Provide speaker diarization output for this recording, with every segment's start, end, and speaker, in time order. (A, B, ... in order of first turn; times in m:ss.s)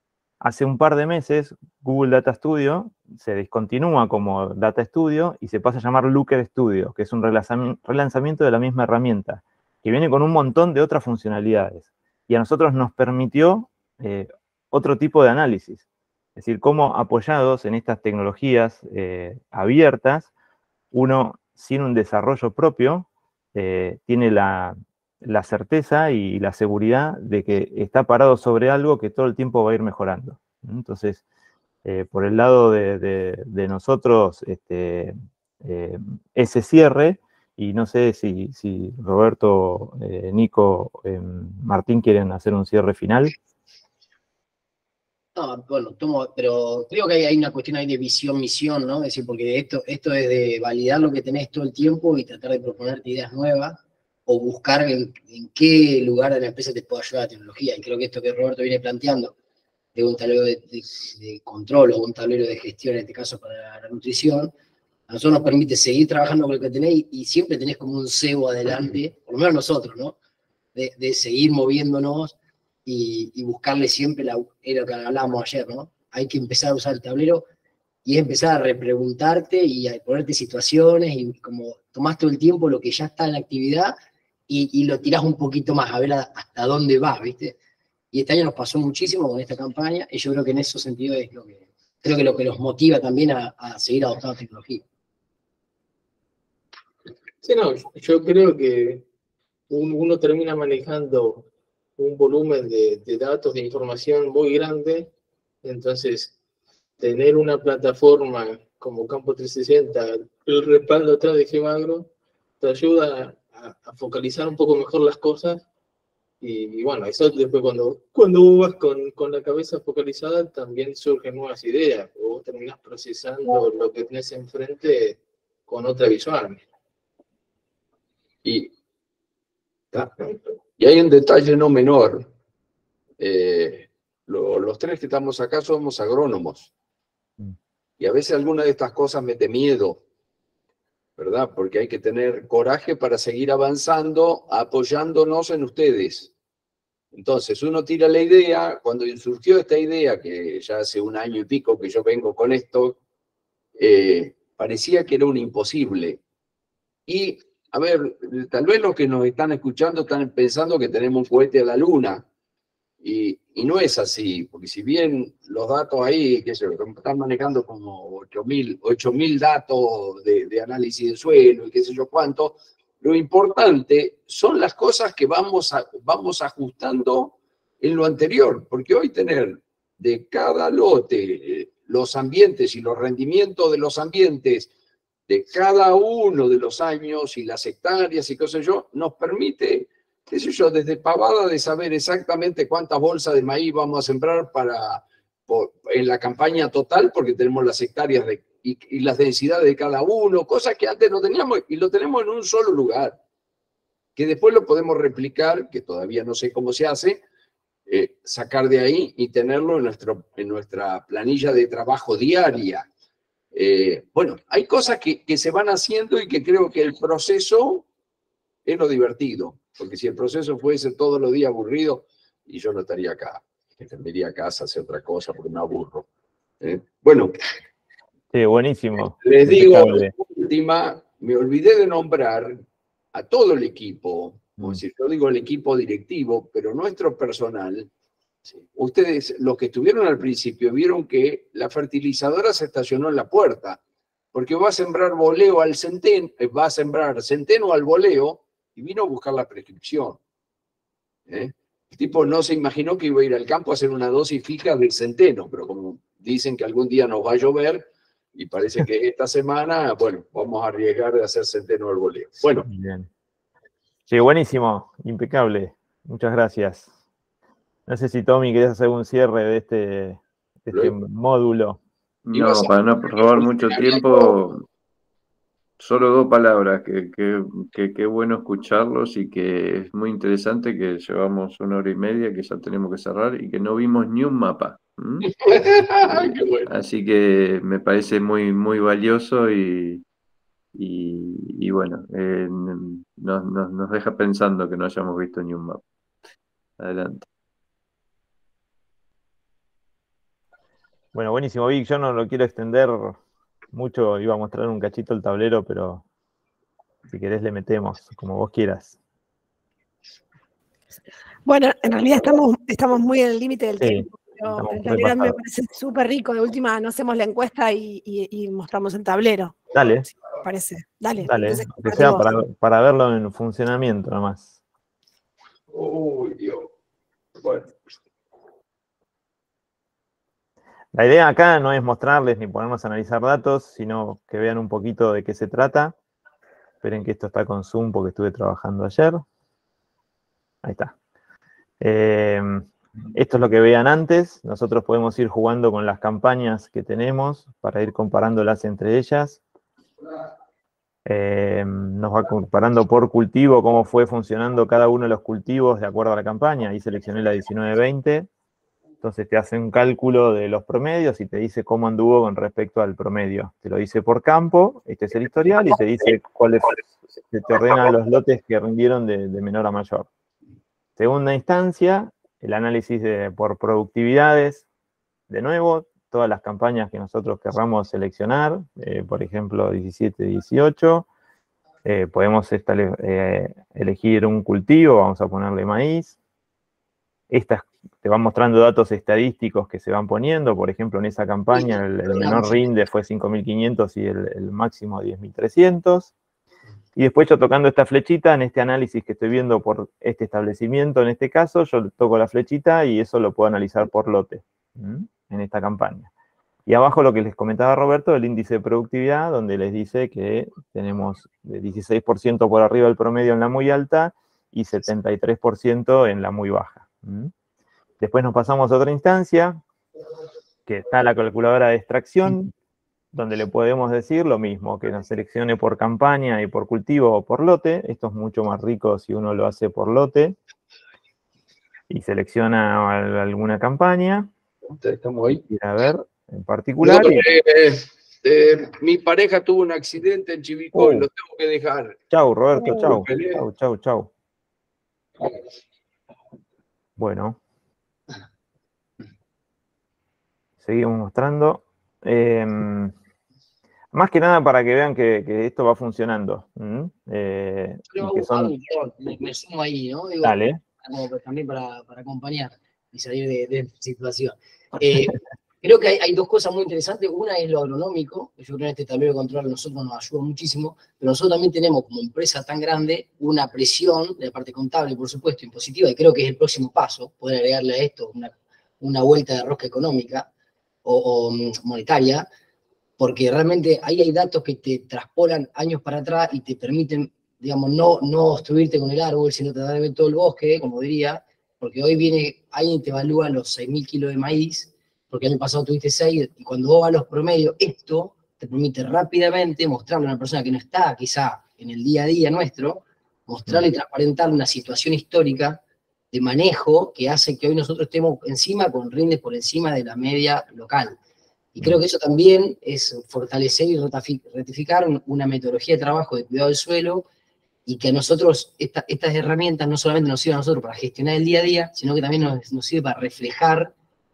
0:00.4-0:15.8 A
0:16.4-0:20.3 A
0:20.9-0:31.2 A
0:31.8-0:43.3 A
0:45.4-0:59.3 B
1:00.0-1:04.5 B
1:05.1-1:10.2 B
1:10.8-1:17.4 B
1:18.0-1:24.0 B
1:24.5-1:27.6 B
1:28.1-1:34.8 B
1:37.4-1:39.0 C
1:39.7-1:45.1 C
1:45.6-1:46.4 C
1:47.0-1:52.1 C
1:52.6-1:55.6 C
1:56.4-2:06.6 C
2:08.4-2:08.7 D
2:09.9-2:12.3 D
2:13.2-2:16.7 D
2:18.0-2:20.0 D
2:21.2-2:26.3 D
2:27.1-2:33.0 D
2:33.8-2:36.2 D
2:37.1-2:42.3 D
2:43.0-3:04.7 D
3:05.3-3:23.2 D
3:24.2-3:27.2 D
3:27.9-3:32.9 D
3:33.5-3:37.9 D
3:38.6-3:46.1 D
3:46.6-3:47.3 D
3:48.3-3:50.1 A
3:49.2-3:57.9 D
3:58.7-4:03.8 D
4:04.3-4:10.2 D
4:11.3-4:22.7 D
4:22.6-4:23.1 A
4:24.1-4:26.9 A
4:27.9-4:31.8 A
4:32.3-4:34.7 E
4:32.3-4:34.4 D
4:35.8-4:45.3 E
4:45.3-4:46.7 D
4:46.1-4:50.0 E
4:50.7-4:55.8 E
4:56.8-4:57.2 E
5:01.1-5:03.2 A
5:03.7-5:06.0 A
5:07.1-5:09.0 A
5:11.5-5:19.6 F
5:13.8-5:15.4 A
5:19.7-5:20.1 A
5:20.4-5:22.3 F
5:21.2-5:24.6 A
5:25.7-5:26.7 D
5:27.4-5:27.7 D
5:30.9-5:36.0 A
5:36.8-5:39.2 A
5:40.6-5:41.0 A
5:41.8-5:49.4 A
5:51.1-5:58.3 A
5:59.0-6:10.1 A
6:11.0-6:14.7 A
6:15.3-6:21.1 A
6:21.8-6:26.2 A
6:27.3-6:36.1 A
6:31.5-6:32.7 B
6:37.0-6:46.1 A
6:46.7-6:57.3 A
6:58.0-6:59.6 A
7:00.7-7:02.5 A
7:03.1-7:10.4 A
7:11.9-7:14.3 A
7:14.7-7:15.4 D
7:15.5-7:17.2 A
7:16.8-7:22.0 D
7:20.7-7:21.1 A
7:22.1-7:24.1 A
7:22.6-7:23.4 D
7:27.0-7:27.4 A
7:30.6-7:32.9 A
7:33.9-7:38.5 A
7:37.9-8:00.3 B
7:40.2-7:40.6 A
8:00.8-8:02.3 B
8:03.0-8:25.6 B
8:26.1-8:31.0 B
8:31.5-8:37.1 B
8:37.7-8:43.7 B